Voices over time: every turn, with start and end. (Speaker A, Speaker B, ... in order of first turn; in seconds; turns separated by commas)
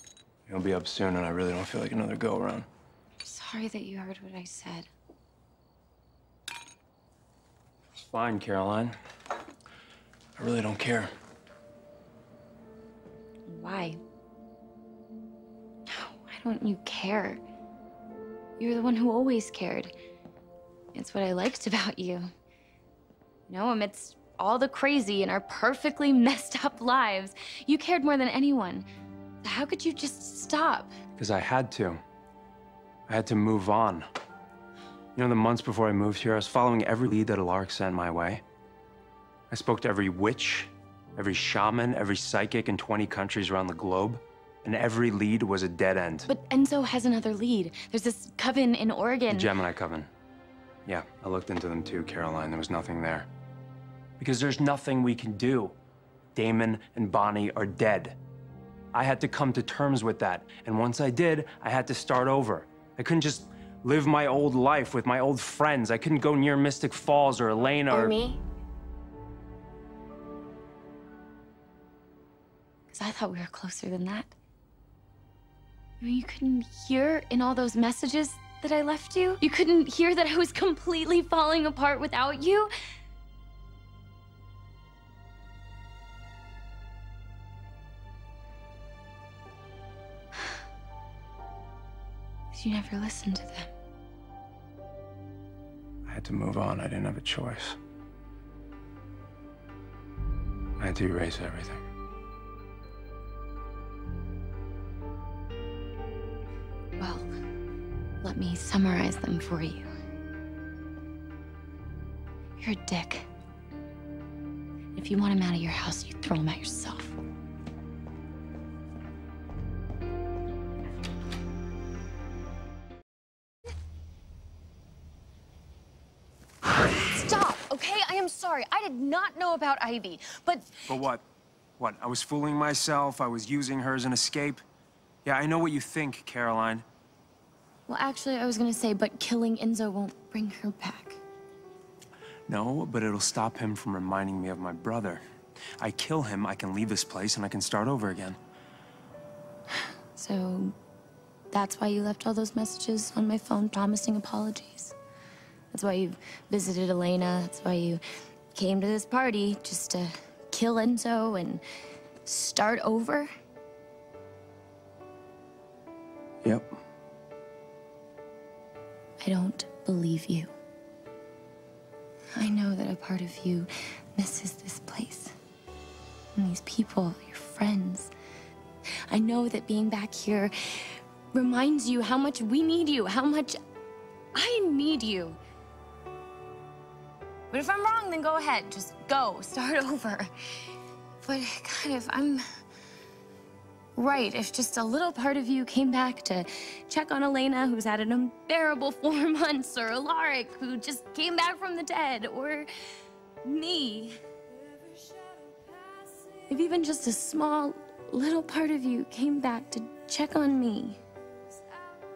Speaker A: 0.5-2.7, Speaker B: 3.2-4.9, Speaker A: 8.0-9.0, Speaker A: 10.4-11.1, Speaker B: 13.5-14.0, Speaker B: 15.9-17.4, Speaker B: 18.6-19.9, Speaker B: 20.9-22.3, Speaker B: 23.5-28.9, Speaker B: 29.4-30.9, Speaker A: 31.2-32.0, Speaker A: 33.1-34.1, Speaker A: 35.2-38.4, Speaker A: 39.5-46.3, Speaker B: 46.3-49.5, Speaker A: 49.3-50.1, Speaker A: 50.9-53.3, Speaker A: 54.2-55.8, Speaker A: 56.4-58.2, Speaker A: 59.0-68.2, Speaker B: 67.9-68.4, Speaker B: 72.9-74.3, Speaker B: 76.0-82.7, Speaker B: 92.5-93.7, Speaker A: 96.1-97.8, Speaker A: 100.8-101.8, Speaker B: 107.0-107.3, Speaker B: 108.2-109.9, Speaker B: 112.6-113.3, Speaker B: 115.0-117.2, Speaker B: 127.1-130.8, Speaker A: 130.9-131.2, Speaker A: 131.8-134.6, Speaker A: 135.2-136.8, Speaker B: 137.9-141.2, Speaker A: 142.5-145.2, Speaker A: 145.8-148.4, Speaker B: 150.2-150.7, Speaker B: 151.5-154.9, Speaker B: 155.7-158.0, Speaker B: 158.5-161.6, Speaker B: 162.2-163.3, Speaker B: 169.2-170.5, Speaker B: 172.3-175.3, Speaker B: 176.4-178.1, Speaker B: 179.1-183.6, Speaker B: 184.3-185.4, Speaker B: 187.5-192.4, Speaker B: 194.0-202.7, Speaker B: 203.4-204.2, Speaker B: 206.2-211.0